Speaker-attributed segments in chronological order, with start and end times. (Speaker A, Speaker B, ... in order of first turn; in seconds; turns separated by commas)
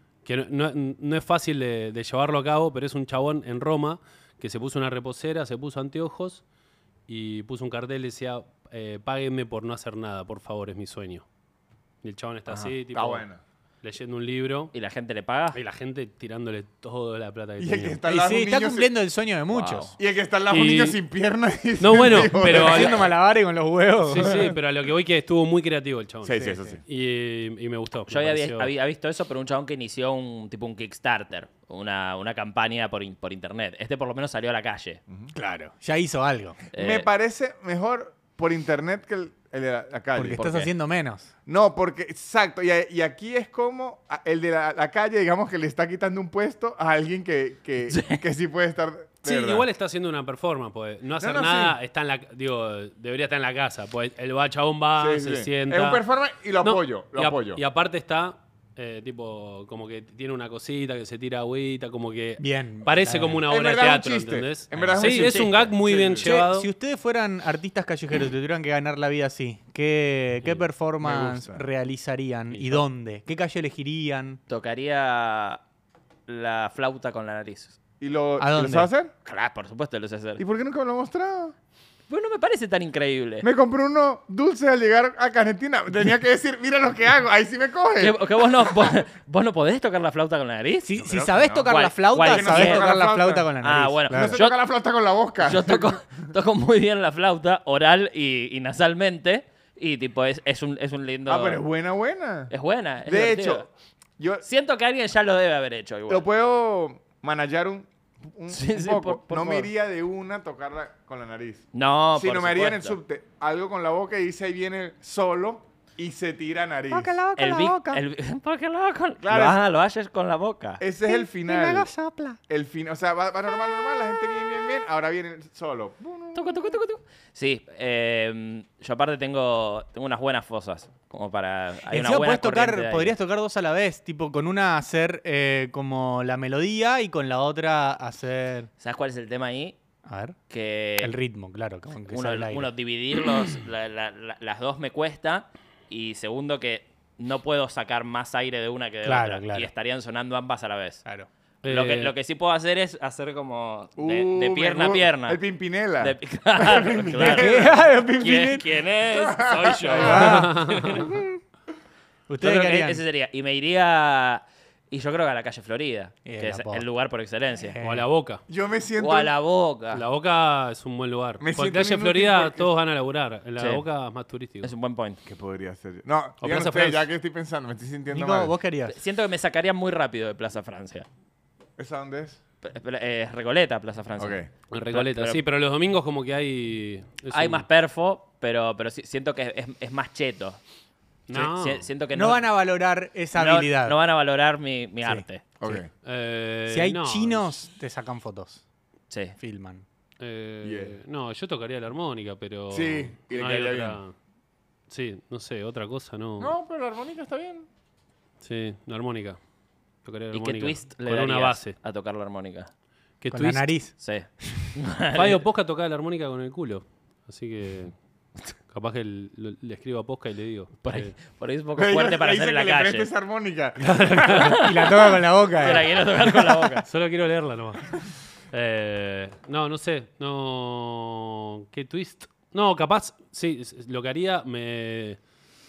Speaker A: 0.2-6.4, Speaker A: 7.1-11.3, Speaker A: 12.0-13.2, Speaker B: 12.5-12.7, Speaker C: 12.9-13.4, Speaker A: 13.8-14.7, Speaker B: 14.7-15.6, Speaker A: 15.5-18.0, Speaker C: 17.6-18.9, Speaker D: 18.1-19.9, Speaker B: 19.5-19.9, Speaker C: 20.0-23.1, Speaker A: 20.5-21.0, Speaker A: 21.8-23.1, Speaker D: 22.2-24.4, Speaker A: 24.1-28.7, Speaker C: 26.2-26.8, Speaker B: 28.1-35.0, Speaker D: 35.4-36.6, Speaker B: 36.7-37.1, Speaker C: 36.7-40.5, Speaker D: 40.2-41.3, Speaker B: 40.4-40.7, Speaker C: 41.5-49.7, Speaker B: 47.9-48.2, Speaker A: 49.2-56.0, Speaker C: 51.2-51.8, Speaker C: 55.0-57.6, Speaker A: 56.6-66.7, Speaker D: 62.4-63.4, Speaker C: 63.5-66.2, Speaker B: 65.0-66.2, Speaker D: 66.2-74.4, Speaker C: 71.0-71.6, Speaker A: 72.5-72.8, Speaker B: 74.5-75.6, Speaker B: 76.3-77.8, Speaker C: 78.0-79.1, Speaker D: 78.4-78.9, Speaker B: 79.2-80.4, Speaker C: 80.4-81.5, Speaker B: 82.1-83.5, Speaker C: 83.4-88.2, Speaker B: 88.0-90.9, Speaker D: 90.8-94.4, Speaker C: 91.0-93.5, Speaker B: 91.7-92.9, Speaker B: 93.6-94.6, Speaker C: 94.1-96.1, Speaker B: 95.4-101.6, Speaker C: 101.3-102.5, Speaker B: 102.5-103.7, Speaker C: 103.0-103.7, Speaker C: 104.2-104.4, Speaker B: 104.4-106.2, Speaker C: 106.1-117.2, Speaker B: 108.5-109.7, Speaker B: 111.7-113.0, Speaker D: 116.9-118.0, Speaker B: 117.4-120.8, Speaker C: 119.2-119.6, Speaker C: 120.8-121.9, Speaker D: 121.1-122.4, Speaker C: 122.5-126.6, Speaker B: 126.3-133.1, Speaker D: 131.9-138.7, Speaker B: 138.8-139.8, Speaker D: 140.1-140.4, Speaker B: 140.5-141.1, Speaker D: 141.0-142.7, Speaker B: 142.1-151.0, Speaker D: 149.1-149.7, Speaker A: 151.7-152.1, Speaker B: 151.7-155.4, Speaker C: 154.0-157.8, Speaker B: 156.0-157.6, Speaker D: 157.2-158.6, Speaker B: 158.2-161.2, Speaker C: 159.1-160.5, Speaker D: 159.9-160.5, Speaker A: 160.2-161.1, Speaker D: 162.3-163.0, Speaker B: 162.4-167.8, Speaker D: 166.2-166.8, Speaker D: 167.6-168.1, Speaker A: 167.8-168.4, Speaker C: 168.5-169.3, Speaker B: 169.0-170.1, Speaker A: 169.9-174.7, Speaker C: 171.4-172.7, Speaker B: 173.6-173.8, Speaker B: 174.6-175.2, Speaker C: 175.2-178.5, Speaker A: 176.4-177.1, Speaker D: 178.1-179.0, Speaker B: 178.9-181.1, Speaker C: 181.8-182.4, Speaker B: 182.6-185.4, Speaker C: 184.2-184.5, Speaker A: 184.7-187.7, Speaker B: 187.3-190.6, Speaker A: 191.3-191.8, Speaker B: 191.3-192.4, Speaker D: 192.1-194.0, Speaker B: 193.3-195.5, Speaker D: 195.0-195.8, Speaker C: 195.6-195.9, Speaker A: 196.0-197.6, Speaker D: 196.7-198.6, Speaker B: 199.1-199.4, Speaker D: 199.4-199.8, Speaker A: 200.2-204.1, Speaker C: 200.6-201.0, Speaker C: 202.7-204.0, Speaker A: 204.9-206.5, Speaker C: 206.4-207.7, Speaker A: 208.4-209.4, Speaker A: 210.0-211.8, Speaker B: 210.3-212.7, Speaker A: 213.2-213.7, Speaker D: 213.3-213.9, Speaker B: 214.0-215.4, Speaker A: 215.1-217.9, Speaker A: 218.7-221.1, Speaker B: 220.8-223.1, Speaker C: 221.8-224.6, Speaker A: 223.8-224.6, Speaker B: 224.4-226.9, Speaker D: 224.6-225.9, Speaker A: 226.8-228.0, Speaker A: 228.5-235.2